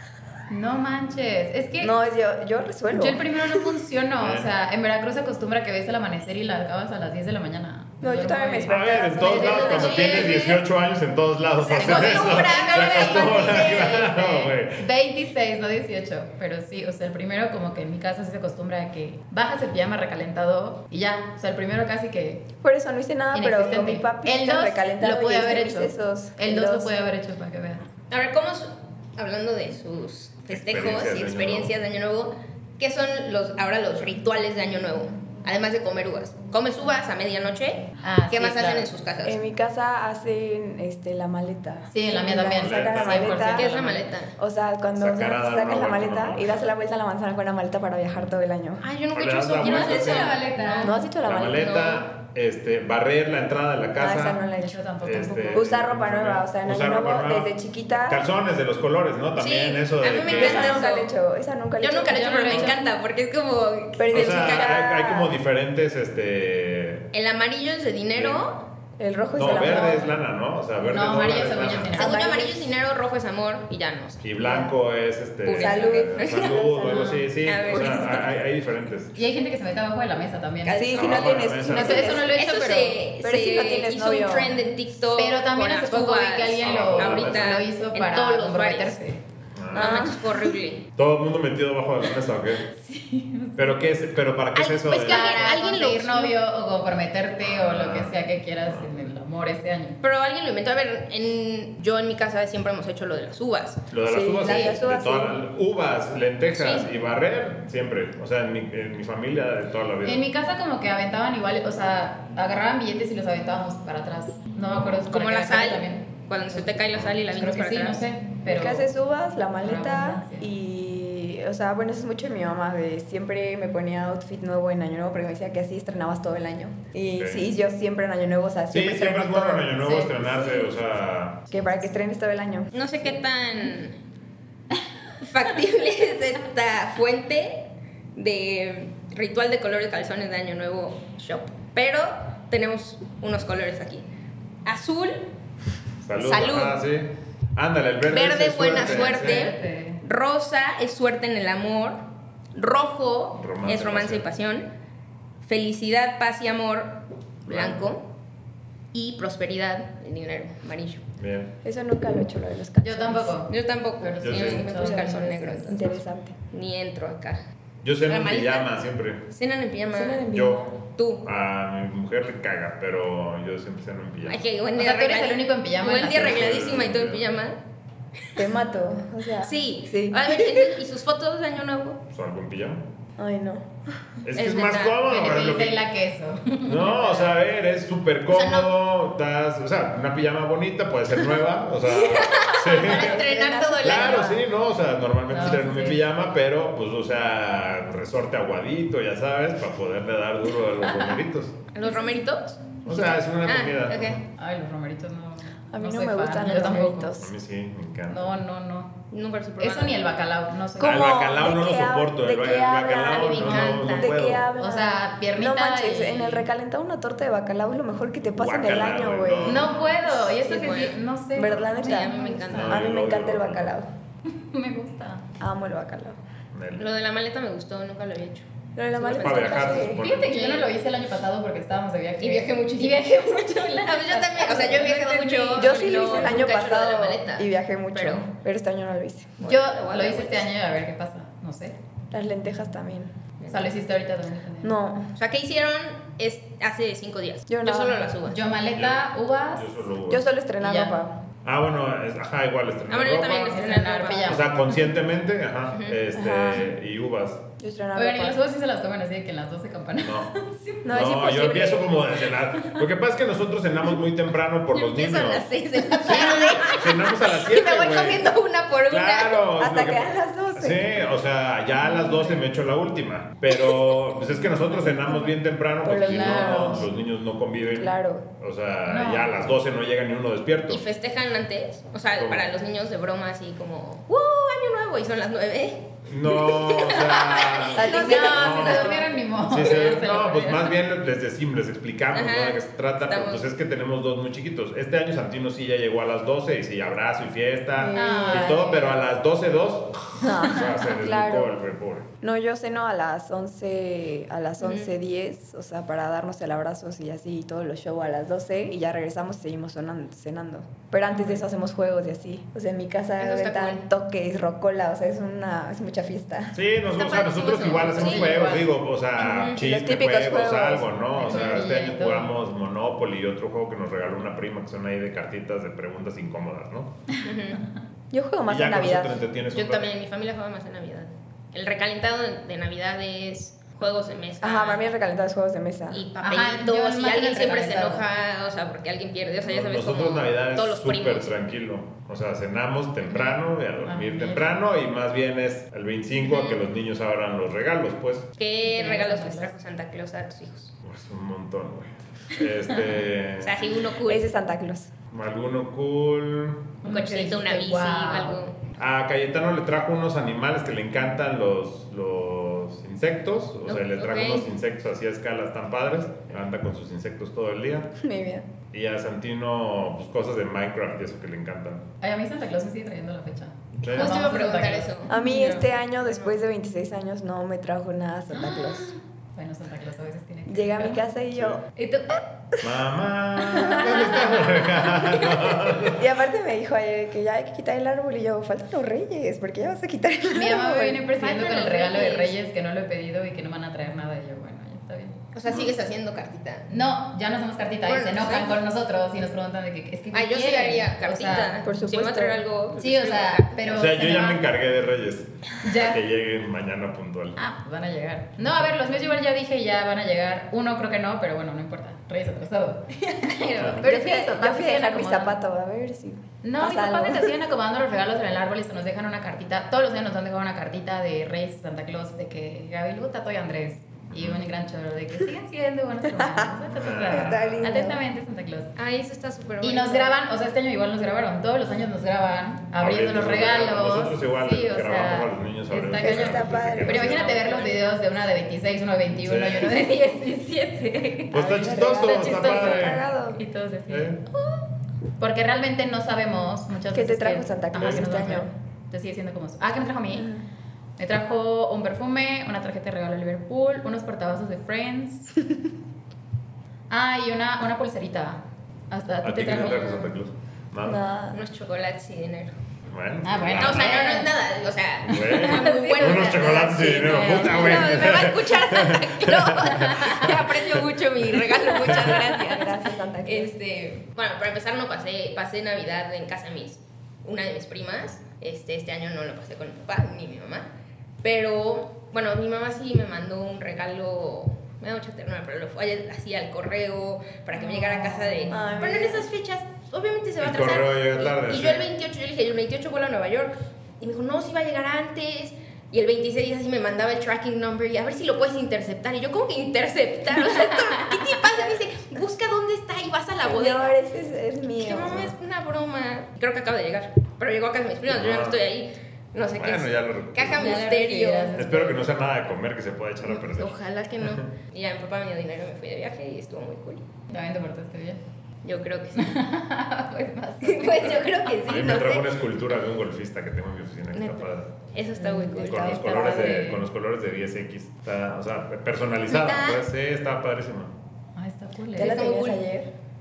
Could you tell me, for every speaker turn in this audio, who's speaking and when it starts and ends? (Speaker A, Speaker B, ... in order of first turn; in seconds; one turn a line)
Speaker A: 0.5-1.9
Speaker B: 1.8-3.8
Speaker A: 2.9-10.4
Speaker C: 4.2-4.5
Speaker B: 8.0-10.2
Speaker C: 8.7-14.8
Speaker D: 9.3-10.6
Speaker D: 11.6-14.2
Speaker A: 11.8-22.5
Speaker B: 22.6-26.9
Speaker A: 23.3-27.9
Speaker D: 28.1-39.4
Speaker C: 30.5-31.7
Speaker A: 38.0-38.9
Speaker B: 39.2-43.7
Speaker A: 41.9-44.1
Speaker C: 42.6-43.5
Speaker D: 43.4-44.4
Speaker B: 44.4-48.9
Speaker C: 45.0-46.6
Speaker D: 48.8-52.0
Speaker C: 49.1-50.4
Speaker A: 49.6-51.0
Speaker B: 50.8-51.9
Speaker C: 51.2-54.4
Speaker B: 54.0-58.2
Speaker A: 54.5-55.7
Speaker C: 55.0-57.5
Speaker C: 58.0-60.9
Speaker D: 59.4-61.2
Speaker B: 60.2-62.7
Speaker D: 61.8-64.8
Speaker A: 62.1-62.8
Speaker B: 64.0-65.3
Speaker C: 64.1-67.1
Speaker D: 67.1-68.6
Speaker C: 68.2-68.4
Speaker B: 69.0-70.1
Speaker C: 69.4-72.1
Speaker A: 69.4-70.1
Speaker A: 70.8-72.6
Speaker D: 71.9-74.6
Speaker C: 74.2-79.2
Speaker B: 74.4-74.7
Speaker D: 75.5-78.3
Speaker B: 75.5-78.2
Speaker A: 79.2-81.1
Speaker D: 80.6-81.4
Speaker B: 80.8-82.3
Speaker C: 80.9-82.1
Speaker A: 81.6-83.0
Speaker D: 82.1-89.0
Speaker B: 83.2-84.6
Speaker A: 85.1-89.2
Speaker C: 86.6-87.7
Speaker C: 89.6-90.1
Speaker B: 89.7-90.3
Speaker D: 89.7-90.8
Speaker C: 91.0-92.7
Speaker A: 92.7-93.8
Speaker C: 93.6-95.6
Speaker D: 94.6-96.4
Speaker A: 95.0-100.0
Speaker C: 97.4-98.9
Speaker D: 100.0-103.9
Speaker C: 103.9-110.3
Speaker B: 104.0-105.4
Speaker D: 104.4-104.8
Speaker D: 106.6-106.9
Speaker A: 110.0-118.8
Speaker D: 115.1-118.0
Speaker B: 118.5-130.7
Speaker A: 119.6-120.5
Speaker C: 127.2-127.5
Speaker C: 128.7-131.4
Speaker A: 129.8-130.1
Speaker B: 131.5-132.7
Speaker D: 132.7-134.0
Speaker D: 135.2-144.1
Speaker D: 144.7-145.3
Speaker C: 146.0-149.5
Speaker D: 146.2-146.8
Speaker D: 148.1-152.0
Speaker A: 148.7-150.0
Speaker D: 152.6-154.7
Speaker C: 153.4-154.3
Speaker D: 155.4-158.1
Speaker C: 157.5-157.9
Speaker D: 158.9-161.0
Speaker C: 161.2-161.5
Speaker B: 161.6-163.4
Speaker A: 162.8-165.7
Speaker D: 163.5-166.0
Speaker C: 164.2-164.7
Speaker B: 164.7-166.3
Speaker D: 166.5-167.4
Speaker C: 167.8-169.2
Speaker D: 168.1-168.7
Speaker D: 169.3-171.2
Speaker B: 169.9-170.8
Speaker C: 170.3-170.6
Speaker C: 171.2-174.4
Speaker D: 174.3-177.6
Speaker A: 174.8-176.6
Speaker C: 176.1-177.2
Speaker D: 178.2-178.5
Speaker B: 178.4-180.7
Speaker D: 179.4-182.0
Speaker C: 182.1-182.8
Speaker B: 183.2-184.0
Speaker C: 184.2-185.8
Speaker D: 184.3-185.0
Speaker A: 185.1-187.4
Speaker C: 186.7-193.2
Speaker D: 188.3-188.7
Speaker D: 191.9-194.4
Speaker B: 192.8-194.4
Speaker A: 193.1-194.1
Speaker C: 193.8-201.6
Speaker A: 195.3-196.0
Speaker D: 201.7-204.2
Speaker C: 202.8-204.2
Speaker A: 204.3-207.1
Speaker B: 205.7-207.3
Speaker C: 207.2-208.3
Speaker A: 208.1-209.0
Speaker D: 209.1-210.1
Speaker A: 209.6-211.3
Speaker B: 210.8-219.9
Speaker C: 210.8-214.5
Speaker A: 213.2-213.8
Speaker D: 213.2-214.1
Speaker A: 214.6-216.5
Speaker C: 218.4-219.9
Speaker A: 219.4-222.8
Speaker D: 220.1-221.0
Speaker B: 221.3-223.9
Speaker D: 221.6-222.9
Speaker C: 222.5-223.7
Speaker A: 224.3-225.3
Speaker B: 225.4-226.2
Speaker C: 226.5-226.9
Speaker D: 226.8-230.7
Speaker B: 228.8-230.0
Speaker C: 229.2-230.6
Speaker A: 229.9-236.4
Speaker D: 232.2-238.3
Speaker B: 235.5-239.4
Speaker D: 239.4-240.5
Speaker A: 239.4-241.8
Speaker B: 242.1-243.1
Speaker D: 243.4-243.8
Speaker A: 243.5-244.8
Speaker B: 244.6-245.1
Speaker D: 245.2-248.4
Speaker B: 247.5-248.1
Speaker A: 248.3-249.8
Speaker C: 248.8-250.2
Speaker B: 250.1-251.2
Speaker A: 250.6-251.0
Speaker C: 251.4-253.6
Speaker D: 252.9-254.5
Speaker A: 253.3-254.9
Speaker C: 254.2-257.4
Speaker D: 255.7-256.0
Speaker B: 256.1-256.7
Speaker B: 257.6-258.4
Speaker A: 258.0-260.8
Speaker C: 260.0-260.3
Speaker B: 260.8-262.0
Speaker C: 260.9-265.5
Speaker D: 264.7-269.4
Speaker C: 266.0-268.4
Speaker C: 268.9-280.8
Speaker B: 269.6-271.0
Speaker A: 271.8-272.4
Speaker D: 273.6-273.8
Speaker B: 274.7-276.9
Speaker A: 275.9-276.9
Speaker B: 277.8-278.3
Speaker A: 278.9-279.5
Speaker D: 280.7-289.1
Speaker C: 282.2-282.5
Speaker C: 286.1-302.1
Speaker B: 287.7-288.9
Speaker A: 287.9-290.8
Speaker D: 292.1-293.4
Speaker B: 297.8-298.7
Speaker A: 297.9-299.0
Speaker B: 300.2-301.5
Speaker B: 302.2-316.6
Speaker D: 304.6-304.9
Speaker A: 311.1-311.4
Speaker D: 313.2-313.8
Speaker C: 316.5-326.9
Speaker D: 317.0-318.7
Speaker A: 317.7-318.7
Speaker D: 319.2-319.6
Speaker B: 319.5-321.6
Speaker A: 321.2-322.4
Speaker D: 327.2-327.6
Speaker B: 328.1-329.2
Speaker C: 328.5-329.9
Speaker D: 329.5-334.9
Speaker B: 334.4-336.0
Speaker D: 335.9-341.4
Speaker A: 336.2-338.0
Speaker C: 339.5-348.3
Speaker A: 343.8-344.5
Speaker D: 346.2-346.6
Speaker D: 348.4-350.7
Speaker A: 348.6-349.5
Speaker C: 350.8-353.6
Speaker D: 353.4-354.3
Speaker B: 354.1-354.9
Speaker C: 355.1-356.8
Speaker A: 356.8-358.4
Speaker D: 356.9-358.6
Speaker C: 358.8-367.9
Speaker D: 363.7-364.5
Speaker B: 368.0-368.5
Speaker C: 368.7-371.9
Speaker A: 372.0-375.7
Speaker C: 373.8-374.2
Speaker D: 373.9-376.3
Speaker B: 375.1-378.9
Speaker A: 378.3-381.0
Speaker B: 380.5-381.6
Speaker A: 381.8-382.2
Speaker C: 382.6-386.1
Speaker B: 383.5-384.0
Speaker A: 383.6-384.6
Speaker B: 385.7-391.1
Speaker A: 390.3-395.2
Speaker D: 391.1-392.4
Speaker D: 395.3-396.7
Speaker A: 396.7-401.6
Speaker D: 397.8-398.6
Speaker D: 400.1-403.6
Speaker B: 401.6-402.4
Speaker A: 402.8-404.4
Speaker C: 403.7-407.4
Speaker A: 405.6-406.0
Speaker A: 407.4-415.4
Speaker D: 413.1-413.9
Speaker B: 413.8-417.3
Speaker A: 416.4-428.7
Speaker C: 424.1-424.4
Speaker B: 426.1-426.5
Speaker C: 426.7-427.7
Speaker B: 427.1-428.0
Speaker D: 428.8-430.2
Speaker A: 429.6-444.4
Speaker C: 432.8-437.4
Speaker B: 436.0-437.6
Speaker D: 437.3-437.8
Speaker C: 439.2-439.8
Speaker C: 441.3-443.0
Speaker B: 441.3-443.4
Speaker C: 443.9-444.2
Speaker A: 445.2-450.3
Speaker B: 446.9-448.5
Speaker B: 450.1-450.4
Speaker A: 451.0-455.4
Speaker A: 456.9-460.1
Speaker C: 459.2-461.0
Speaker B: 460.8-461.4
Speaker D: 461.3-462.5
Speaker C: 462.9-464.0
Speaker A: 463.2-464.3
Speaker D: 463.6-480.7
Speaker C: 465.0-470.8
Speaker A: 465.3-468.0
Speaker A: 469.8-470.0
Speaker B: 471.9-473.5
Speaker D: 481.2-504.0
Speaker A: 487.6-488.7
Speaker B: 488.5-489.3
Speaker C: 490.4-491.9
Speaker B: 503.4-505.3
Speaker D: 504.8-511.6
Speaker C: 508.1-508.6
Speaker C: 509.6-510.7
Speaker A: 510.5-512.1
Speaker C: 511.5-514.5
Speaker D: 513.3-517.0
Speaker A: 517.3-518.2
Speaker D: 518.6-519.4
Speaker A: 519.2-521.6
Speaker D: 520.6-522.4
Speaker C: 521.6-524.7
Speaker D: 524.1-526.4
Speaker B: 525.2-526.6
Speaker A: 525.2-526.9
Speaker C: 525.6-530.9
Speaker D: 529.3-529.8
Speaker A: 531.4-532.2
Speaker B: 532.0-532.9
Speaker D: 532.0-532.6